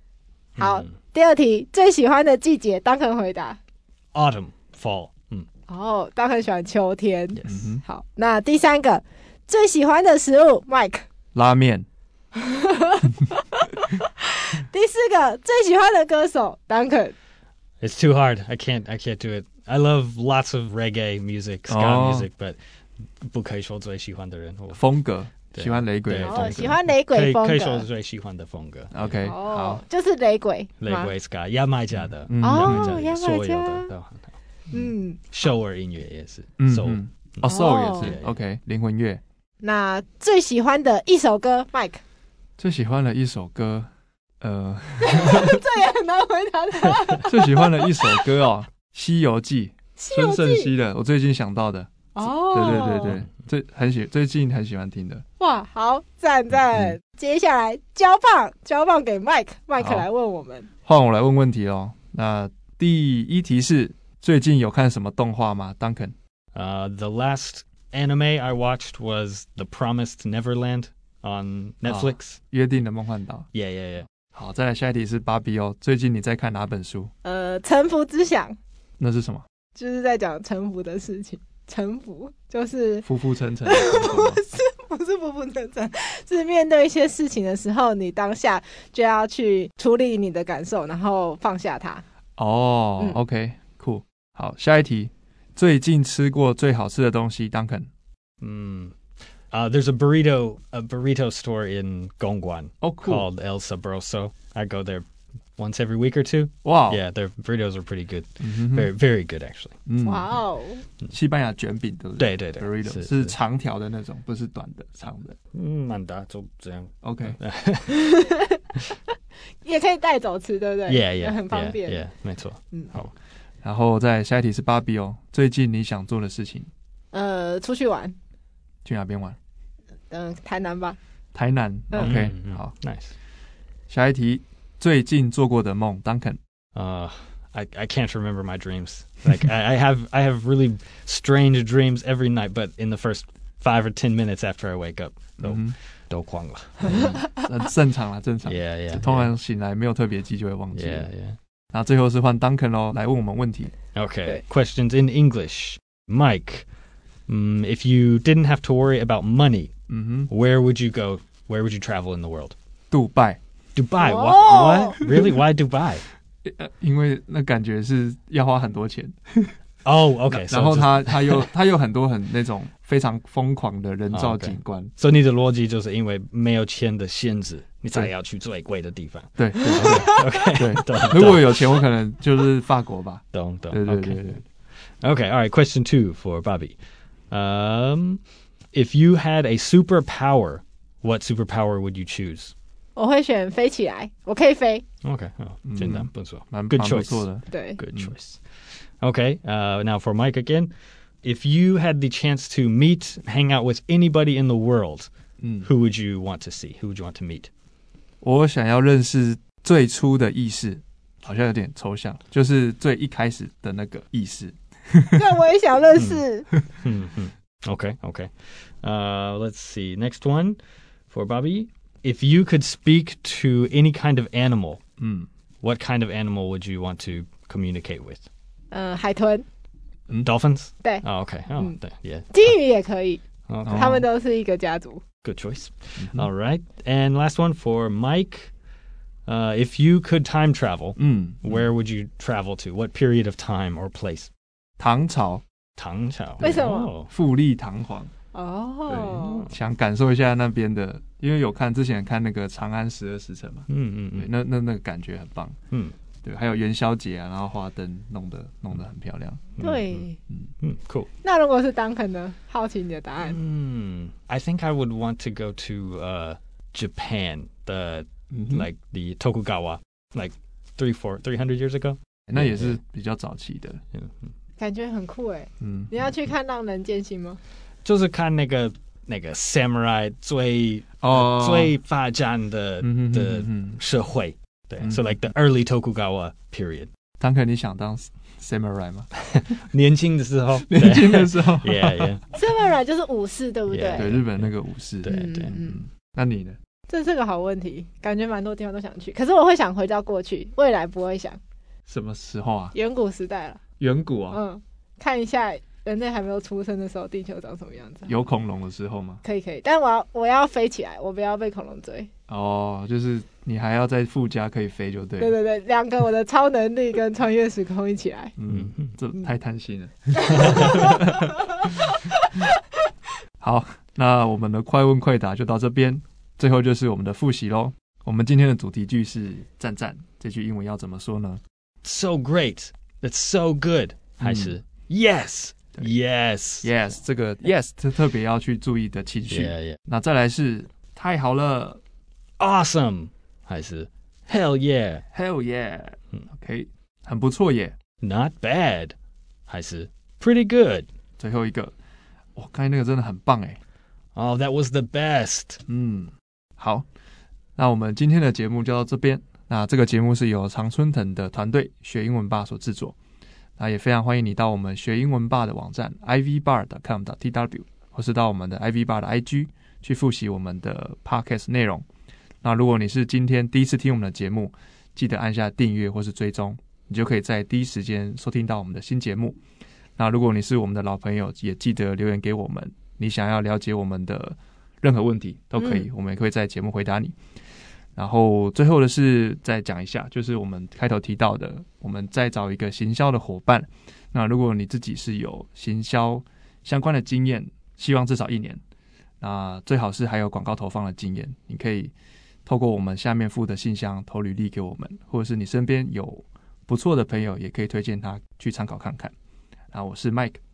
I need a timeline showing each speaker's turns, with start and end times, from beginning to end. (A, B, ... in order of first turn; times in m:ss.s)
0:00.6-0:00.9 A
0:00.6-0:03.6 B
0:04.1-0:05.5 A
0:05.7-0:11.1 B
0:07.4-0:07.8 C
0:11.3-0:11.9 C
0:12.4-0:17.2 B
0:17.8-0:22.6 A
0:21.7-0:22.3 C
0:23.2-0:24.8 A
0:24.7-0:26.8 C
0:25.5-0:29.3 A
0:26.2-0:27.9 B
0:28.9-0:29.8 C
0:29.2-0:31.1 B
0:30.8-0:34.3 A
0:32.0-0:33.0 C
0:32.4-0:33.9 B
0:34.7-0:35.2 B
0:35.3-0:37.0 A
0:36.6-0:39.2 C
0:37.4-0:38.2 B
0:38.0-0:38.4 A
0:39.6-0:42.0 B
0:42.6-0:43.9 C
0:44.4-0:45.6 C
0:45.0-0:48.3 B
0:47.2-0:55.2 C
0:50.0-0:50.7 B
0:52.2-0:53.2 B
0:52.6-0:53.2 A
0:55.4-1:00.7 B
0:59.8-1:00.1 C
1:00.8-1:06.2 C
1:06.5-1:12.4 A
1:11.9-1:13.5 C
1:13.5-1:14.1 A
1:14.3-1:17.1 C
1:17.2-1:18.6 B
1:19.0-1:19.5 C
1:19.8-1:23.1 B
1:23.0-1:24.4 C
1:23.7-1:32.0 B
1:32.4-1:37.9 C
1:38.4-1:39.0 A
1:39.5-1:45.0 A
1:42.8-1:43.3 C
1:45.6-1:49.8 A
1:46.6-1:47.0 C
1:48.4-1:48.9 C
1:49.9-1:50.4 C
1:50.0-1:50.8 B
1:51.1-1:55.4 C
1:52.2-1:53.4 A
1:55.5-1:58.1 A
1:57.0-1:57.4 C
1:57.9-1:58.6 B
1:59.6-2:02.1 B
2:00.9-2:03.1 A
2:03.6-2:06.7 C
2:07.1-2:08.2 B
2:08.8-2:09.4 C
2:10.1-2:11.0 B
2:11.3-2:12.7 C
2:11.9-2:13.1 A
2:13.9-2:16.4 C
2:16.8-2:27.2 A
2:25.4-2:25.8 C
2:26.9-2:31.1 C
2:28.4-2:29.3 A
2:30.7-2:31.4 A
2:31.7-2:33.7 C
2:33.9-2:36.7 A
2:37.3-2:39.7 A
2:39.9-2:40.3 C
2:40.3-2:42.6 A
2:42.9-2:43.4 C
2:43.8-2:46.1 A
2:44.0-2:45.0 B
2:46.4-2:49.5 C
2:49.8-2:51.5 A
2:50.3-2:54.9 C
2:54.1-3:01.9 A
2:59.4-3:04.4 C
3:03.3-3:04.4 A
3:05.0-3:06.8 A
3:07.3-3:08.2 A
3:08.7-3:12.5 A
3:13.0-3:14.8 B
3:15.0-3:18.4 A
3:15.7-3:18.1 C
3:17.5-3:17.8 B
3:19.0-3:20.7 A
3:21.2-3:25.1 A
3:25.4-3:25.7 C
3:25.6-3:27.5 A
3:28.2-3:35.2 C
3:35.2-3:36.5 B
3:36.0-3:36.2 A
3:36.8-3:40.6 A
3:41.1-3:44.8 A
3:45.0-3:45.3 C
3:45.6-3:48.2 A
3:48.7-3:49.5 B
3:50.2-3:52.5 A
3:50.8-3:51.8 B
3:52.3-3:55.0 B
3:53.5-3:54.0 A
3:53.6-3:54.0 C
3:55.2-3:58.5 A
3:56.0-3:56.3 C
3:59.3-4:04.3 A
4:01.0-4:01.7 C
4:04.8-4:05.4 C
4:05.8-4:07.1 A
4:06.4-4:08.1 C
4:06.4-4:06.9 B
4:08.3-4:09.4 B
4:08.9-4:15.6 C
4:09.2-4:09.6 A
4:13.7-4:14.3 A
4:16.2-4:19.6 C
4:19.6-4:20.0 A
4:19.6-4:20.2 B
4:20.6-4:21.1 A
4:21.2-4:23.4 B
4:23.2-4:32.8 A
4:28.3-4:28.7 C
4:32.3-4:33.8 C
4:34.6-4:37.4 B
4:35.6-4:36.1 C
4:37.8-4:46.9 A
4:41.0-4:41.8 C
4:42.8-4:43.8 C
4:44.8-4:45.2 C
4:47.2-4:49.1 C
4:49.3-4:52.3 A
4:50.7-4:52.1 C
4:52.3-4:54.1 B
4:53.7-4:54.5 A
4:54.0-4:56.6 C
4:55.0-4:55.5 A
4:55.1-4:55.8 B
4:56.9-5:01.4 B
5:01.9-5:02.8 C
5:02.7-5:03.6 B
5:03.8-5:04.4 C
5:04.3-5:08.1 B
5:08.1-5:09.2 C
5:09.2-5:12.1 B
5:12.3-5:15.4 C
5:15.2-5:18.3 B
5:18.4-5:21.9 C
5:18.5-5:19.0 A
5:20.3-5:21.0 B
5:20.3-5:20.8 A
5:23.4-5:31.4 C
5:31.8-5:36.7 A
5:34.2-5:34.6 C
5:36.6-5:41.8 C
5:39.3-5:39.8 A
5:42.4-5:45.0 A
5:45.1-5:47.8 C
5:48.0-5:49.0 A
5:49.5-5:50.9 A
5:51.2-5:51.7 C
5:52.4-5:53.6 C
5:54.2-5:55.6 A
5:55.7-5:56.9 C
5:57.6-6:03.0 C
6:03.6-6:11.8 C
6:12.4-6:19.4 C
6:20.0-6:27.2 C
6:25.6-6:25.8 B
6:28.0-6:38.6 C
6:39.2-6:41.9 C
6:42.5-6:49.1 C
6:49.7-6:50.4 C